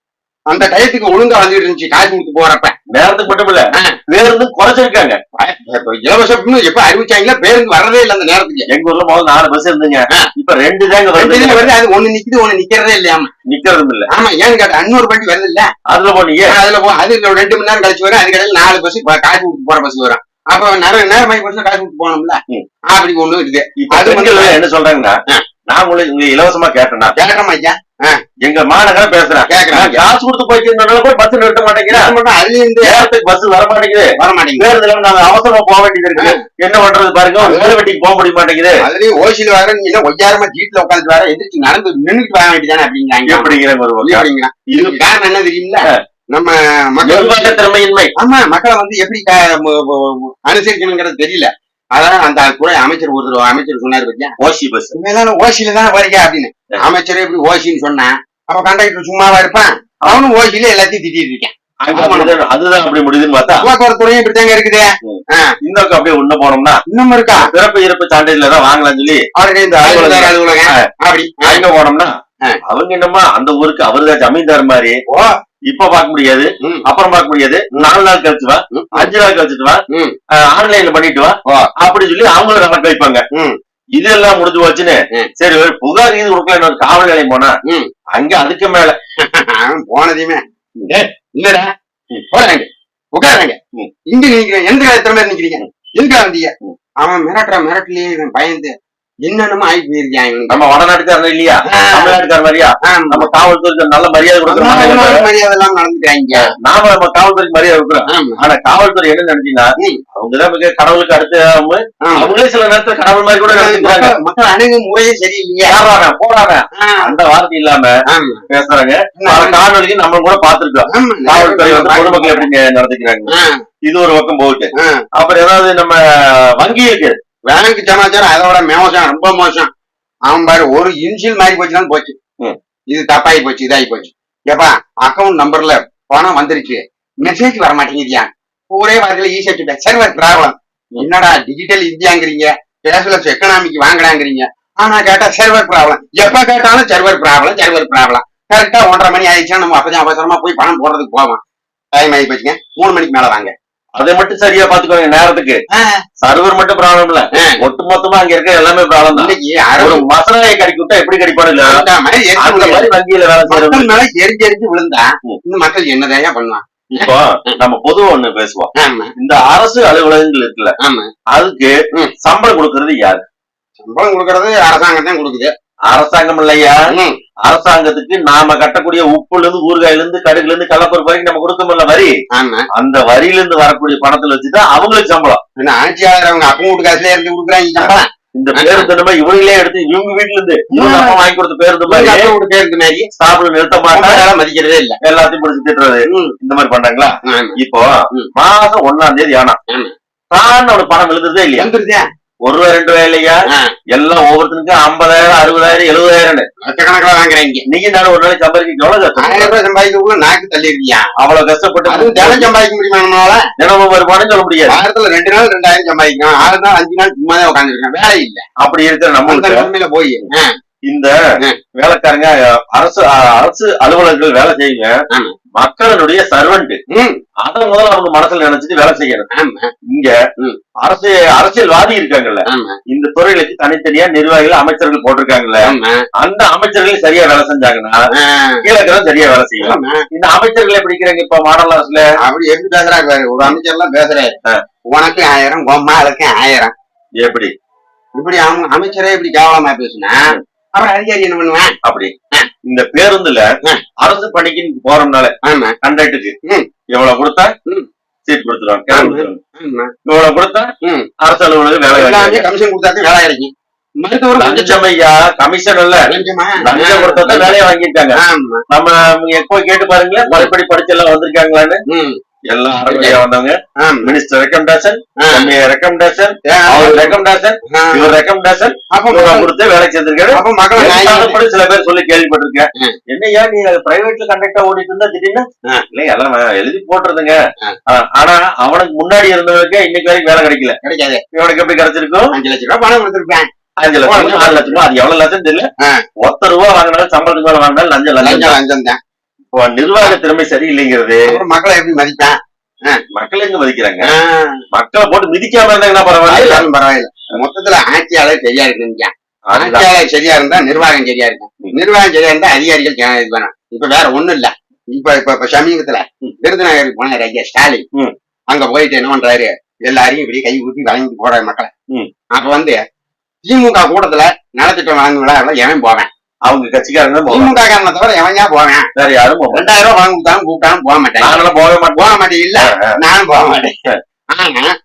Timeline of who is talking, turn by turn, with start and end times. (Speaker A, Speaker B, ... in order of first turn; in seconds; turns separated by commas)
Speaker A: 0.5-2.8, Speaker B: 2.9-5.2, Speaker A: 5.4-8.7, Speaker B: 8.7-11.7, Speaker A: 11.2-13.3, Speaker B: 13.5-14.1, Speaker A: 14.1-15.7, Speaker B: 15.9-16.5, Speaker A: 16.5-24.6, Speaker B: 23.8-25.2, Speaker B: 25.7-27.1, Speaker A: 27.1-28.2, Speaker B: 28.4-32.1, Speaker A: 29.5-30.0, Speaker A: 31.9-33.0, Speaker B: 32.8-38.8, Speaker A: 34.2-34.7, Speaker A: 37.4-37.8, Speaker A: 38.8-47.6, Speaker B: 43.3-45.0, Speaker B: 47.0-48.1, Speaker A: 48.2-54.3, Speaker B: 54.4-54.9, Speaker A: 55.0-62.3, Speaker B: 61.9-63.7, Speaker A: 63.6-65.5, Speaker B: 65.0-69.2, Speaker A: 66.9-67.5, Speaker A: 69.4-71.7, Speaker B: 69.8-70.8, Speaker B: 71.4-72.1, Speaker B: 72.7-75.0, Speaker B: 75.7-79.8, Speaker A: 78.7-79.1, Speaker B: 80.5-83.2, Speaker B: 84.0-87.5, Speaker B: 88.2-89.0, Speaker A: 89.3-93.6, Speaker A: 94.1-96.5, Speaker A: 97.0-98.7, Speaker A: 99.3-100.6, Speaker B: 100.5-105.2, Speaker A: 101.7-102.2, Speaker A: 102.9-103.3, Speaker A: 104.5-106.5, Speaker B: 106.3-114.1, Speaker A: 108.1-108.4, Speaker A: 112.0-112.3, Speaker A: 113.5-115.8, Speaker B: 115.7-117.9, Speaker A: 116.8-117.1, Speaker A: 118.1-118.5, Speaker B: 118.5-123.3, Speaker A: 119.2-119.6, Speaker A: 120.9-122.5, Speaker A: 123.3-123.6, Speaker B: 123.9-126.0, Speaker A: 124.8-125.0, Speaker B: 126.6-127.2, Speaker A: 127.5-129.7, Speaker A: 130.3-132.2, Speaker A: 132.9-151.4, Speaker A: 152.0-153.5, Speaker B: 154.0-155.6, Speaker B: 156.2-161.8, Speaker A: 157.3-157.6, Speaker A: 159.1-160.1, Speaker A: 161.6-162.9, Speaker B: 162.4-163.9, Speaker A: 163.5-167.1, Speaker B: 166.9-170.7, Speaker A: 168.8-169.1, Speaker A: 170.8-171.1, Speaker B: 171.3-173.2, Speaker A: 173.8-175.5, Speaker B: 175.9-176.8, Speaker A: 176.9-177.2, Speaker B: 177.4-182.1, Speaker A: 182.3-182.7, Speaker B: 182.8-185.4, Speaker A: 185.6-188.9, Speaker B: 187.8-192.3, Speaker A: 190.7-191.2, Speaker A: 191.9-193.1, Speaker B: 193.2-194.2, Speaker A: 193.9-195.0, Speaker B: 195.0-199.6, Speaker A: 196.1-196.3, Speaker A: 197.3-197.6, Speaker B: 200.3-201.7, Speaker A: 201.6-202.0, Speaker B: 202.4-203.4, Speaker A: 203.5-203.8, Speaker B: 203.9-206.5, Speaker A: 206.6-207.7, Speaker B: 207.7-209.5, Speaker A: 209.2-211.1, Speaker B: 211.2-212.5, Speaker A: 211.9-213.5, Speaker B: 213.6-214.8, Speaker A: 214.7-218.4, Speaker B: 218.6-219.7, Speaker A: 219.2-220.5, Speaker B: 220.9-221.1, Speaker B: 221.8-224.9, Speaker B: 225.6-226.8, Speaker A: 226.9-227.2, Speaker B: 227.4-229.3, Speaker A: 229.3-229.7, Speaker B: 229.9-230.2, Speaker B: 230.8-238.0, Speaker A: 232.5-232.8, Speaker A: 235.6-236.0, Speaker A: 238.1-238.6, Speaker B: 238.6-242.1, Speaker A: 239.6-240.0, Speaker A: 242.2-244.3, Speaker A: 244.9-246.7, Speaker B: 247.2-247.5, Speaker A: 248.2-251.8, Speaker B: 251.8-252.1, Speaker B: 252.7-253.4, Speaker B: 254.0-256.3, Speaker A: 255.4-255.8, Speaker B: 256.9-257.5, Speaker B: 258.3-259.4, Speaker A: 258.9-259.9, Speaker B: 260.1-262.4, Speaker A: 260.8-261.1, Speaker A: 261.9-263.5, Speaker A: 264.0-264.8, Speaker B: 264.4-266.1, Speaker A: 266.1-267.5, Speaker B: 266.6-268.2, Speaker A: 268.2-268.6, Speaker B: 268.7-271.8, Speaker A: 271.9-272.2, Speaker B: 272.5-287.4, Speaker A: 272.9-273.2, Speaker A: 273.8-274.1, Speaker A: 275.2-275.5, Speaker A: 276.5-277.2, Speaker A: 277.7-278.1, Speaker A: 278.9-279.5, Speaker A: 280.3-281.4, Speaker B: 287.9-290.8, Speaker A: 290.8-291.2, Speaker B: 291.3-292.3, Speaker A: 292.3-293.5, Speaker B: 293.8-295.7, Speaker A: 294.1-294.8, Speaker B: 296.2-298.6, Speaker A: 298.2-299.0, Speaker B: 299.5-301.4, Speaker A: 301.3-302.4, Speaker B: 303.1-304.1, Speaker A: 304.0-304.6, Speaker B: 304.7-306.6, Speaker A: 306.3-317.9, Speaker B: 309.5-309.9, Speaker A: 318.5-321.7, Speaker A: 322.4-322.8, Speaker A: 323.4-326.1, Speaker B: 326.5-327.6, Speaker A: 327.3-328.9, Speaker B: 329.0-329.7, Speaker A: 329.5-331.4, Speaker B: 331.2-332.1, Speaker A: 332.0-333.8, Speaker B: 332.7-332.9, Speaker A: 334.3-334.7